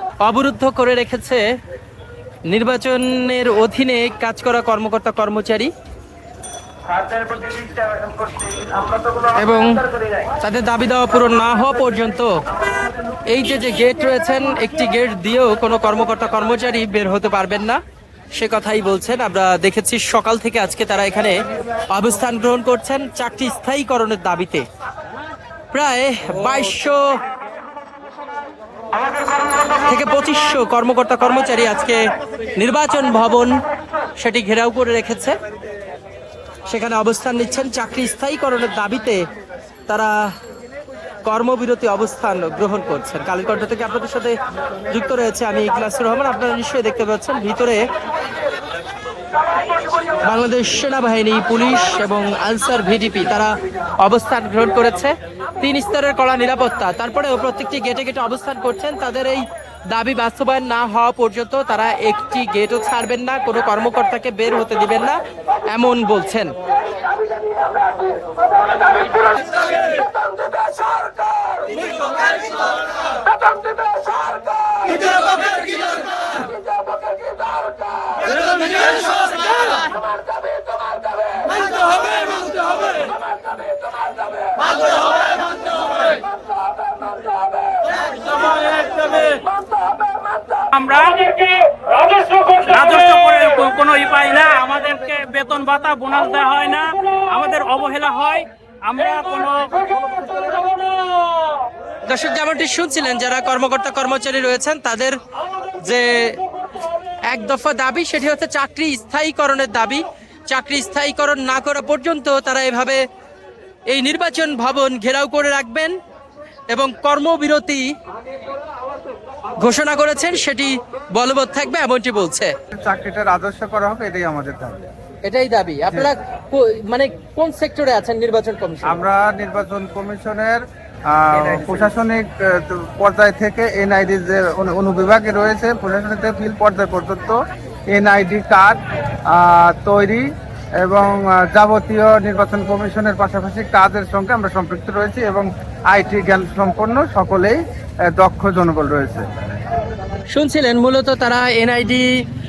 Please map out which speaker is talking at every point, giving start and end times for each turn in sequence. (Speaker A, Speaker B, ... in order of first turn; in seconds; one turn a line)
Speaker A: 0.2-1.4
Speaker A: 2.5-5.7
Speaker A: 9.0-9.8
Speaker A: 10.4-12.3
Speaker A: 13.3-17.8
Speaker A: 18.3-21.4
Speaker A: 21.9-24.6
Speaker A: 25.7-27.0
Speaker A: 29.9-32.0
Speaker A: 32.5-33.5
Speaker A: 34.2-35.4
Speaker A: 36.7-39.2
Speaker A: 39.9-40.3
Speaker A: 41.2-44.4
Speaker A: 44.9-47.8
Speaker A: 50.2-66.5
Speaker A: 88.7-89.3
Speaker B: 90.7-100.1
Speaker A: 102.1-105.2
Speaker A: 105.8-106.4
Speaker A: 107.3-113.0
Speaker A: 113.9-115.9
Speaker A: 116.7-117.9
Speaker A: 119.6-122.5
Speaker C: 122.7-124.9
Speaker A: 125.2-129.0
Speaker C: 128.8-137.4
Speaker C: 137.9-138.8
Speaker C: 139.3-140.3
Speaker C: 140.8-147.6
Speaker C: 148.1-149.3
Speaker A: 150.3-152.1